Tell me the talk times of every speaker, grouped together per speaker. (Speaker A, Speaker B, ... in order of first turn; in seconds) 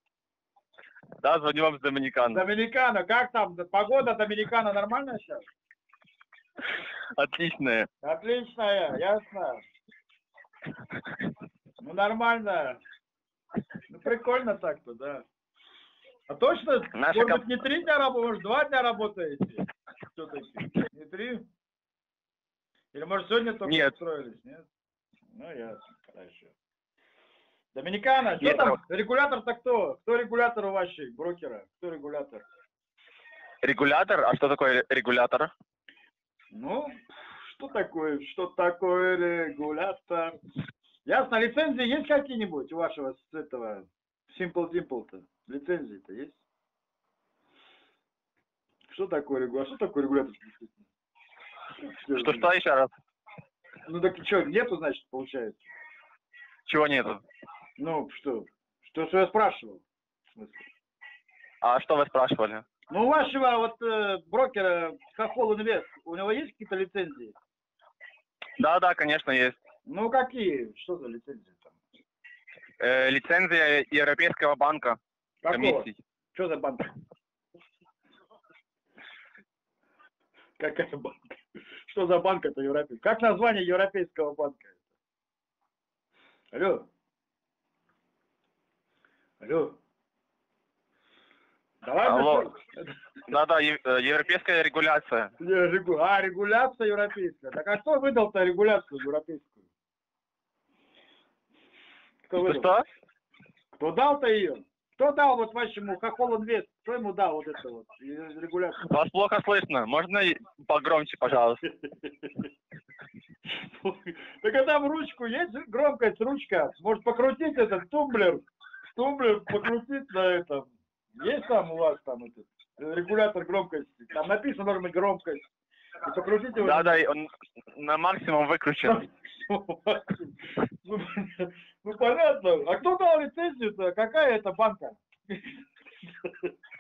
Speaker A: 1.2-2.4, 7.2-7.9, 16.9-17.4, 23.6-23.9, 28.4-28.8, 33.6-35.5, 52.1-52.9, 56.6-57.2, 61.6-62.6, 68.6-69.6, 72.8-75.0, 75.5-76.0, 92.0-92.5, 93.3-95.3, 102.4-102.8, 108.8-111.6, 126.6-129.0
Speaker B: 2.3-5.4, 8.0-9.6, 11.8-12.8, 13.9-15.2, 16.3-21.5, 22.9-24.6, 25.3-26.5, 27.7-32.5, 36.5-40.4, 41.0-46.4, 48.9-50.7, 51.8-52.5, 53.9-55.6, 57.8-59.8, 60.4-60.6, 62.9-67.3, 69.9-71.7, 75.4-76.9, 80.6-81.4, 81.9-84.8, 86.5-86.9, 89.4-89.8, 91.8-92.9, 95.4-99.6, 102.3-102.7, 103.8-108.8, 111.7-112.4, 113.5-125.5, 126.0-127.0, 128.8-130.3, 130.8-135.4